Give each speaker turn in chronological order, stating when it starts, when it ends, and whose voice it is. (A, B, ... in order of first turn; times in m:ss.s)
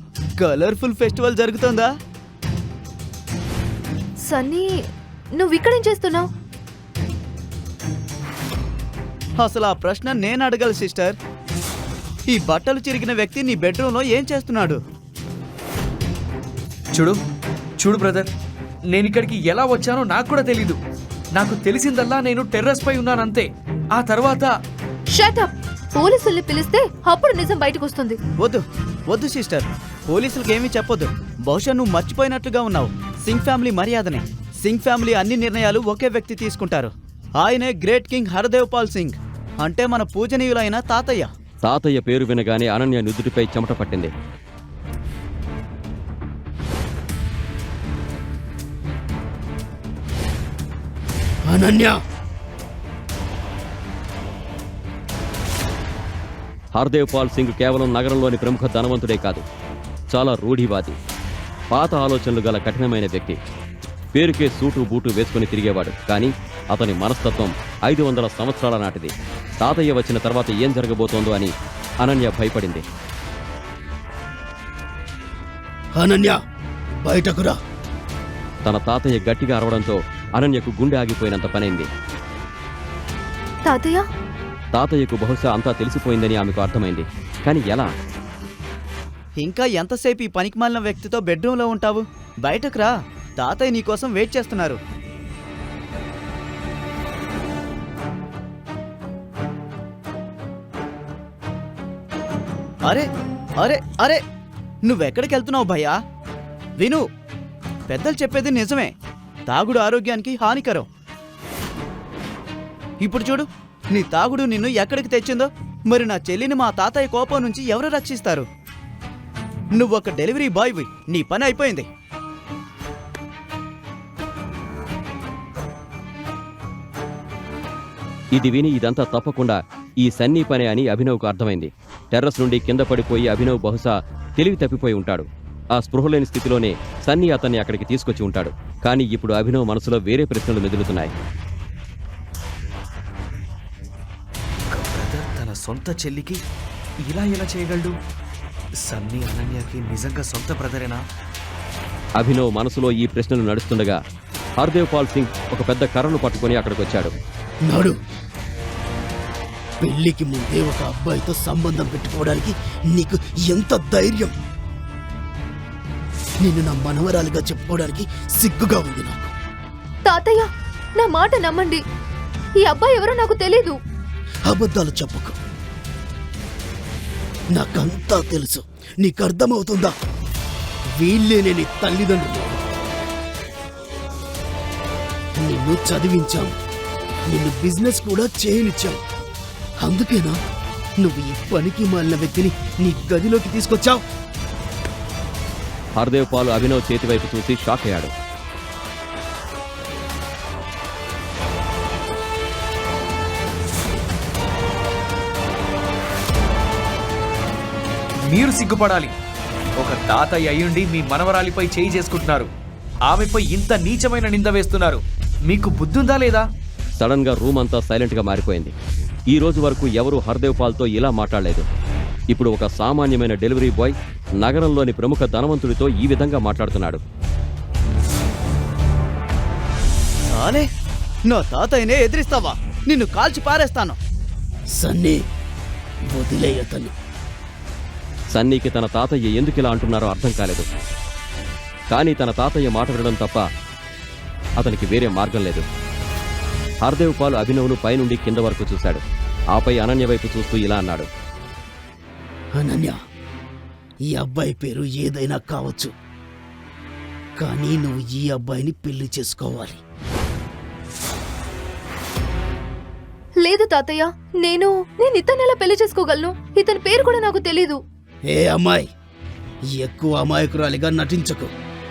0:00.4-0:01.9 A
0:04.3-0:04.7 B
0:05.4-0:06.3 B
0:09.4-0:11.2 A
0:12.3-0:14.8 A
0:17.8-0:18.3 C
0:18.9-0:20.8 C
0:21.4-0:24.5 C
0:25.1-0:28.2 B
0:28.4-0:41.3 A
0:41.6-0:44.1 D
0:51.5-0:52.0 E
0:56.8-0:59.4 D
1:00.1-1:01.0 D
1:01.7-1:03.4 D
1:04.2-1:12.8 D
1:16.0-1:16.4 E
1:17.0-1:17.6 E
1:18.6-1:21.9 D
1:23.7-1:24.0 B
1:24.8-1:27.9 D
1:29.4-1:34.8 A
1:43.6-1:44.2 A
1:44.8-1:46.0 A
1:47.9-1:48.9 A
1:49.5-1:50.9 A
1:53.0-1:58.5 A
1:59.8-2:01.9 A
2:08.4-2:21.1 D
2:24.7-2:26.4 C
2:27.1-2:27.9 C
2:28.9-2:31.0 C
2:32.2-2:34.0 D
2:34.6-2:37.1 D
2:37.6-2:38.0 E
2:39.8-2:44.3 E
2:46.4-2:49.2 E
2:50.1-2:50.5 B
2:51.0-2:51.8 B
2:52.6-2:53.8 B
2:54.5-2:55.4 E
2:57.5-2:59.9 E
3:01.0-3:02.6 E
3:05.4-3:06.5 E
3:07.3-3:09.0 E
3:09.8-3:10.4 E
3:11.0-3:14.0 E
3:16.0-3:18.1 D
3:28.3-3:29.1 C
3:29.8-3:32.5 C
3:33.1-3:36.4 C
3:37.0-3:38.7 D
3:39.3-3:41.6 D
3:42.3-3:47.0 D
3:50.3-3:50.7 A
3:51.3-3:54.0 A
3:54.8-3:55.2 E
3:56.1-3:56.9 E
3:58.3-4:00.7 D
4:01.9-4:03.5 D
4:04.6-4:05.6 D
4:06.8-4:09.0 D
4:09.5-4:11.1 D
4:12.6-4:13.0 E
4:14.1-4:15.9 E
4:17.4-4:19.8 E
4:23.4-4:27.8 B
4:28.3-4:28.8 E
4:29.8-4:31.5 E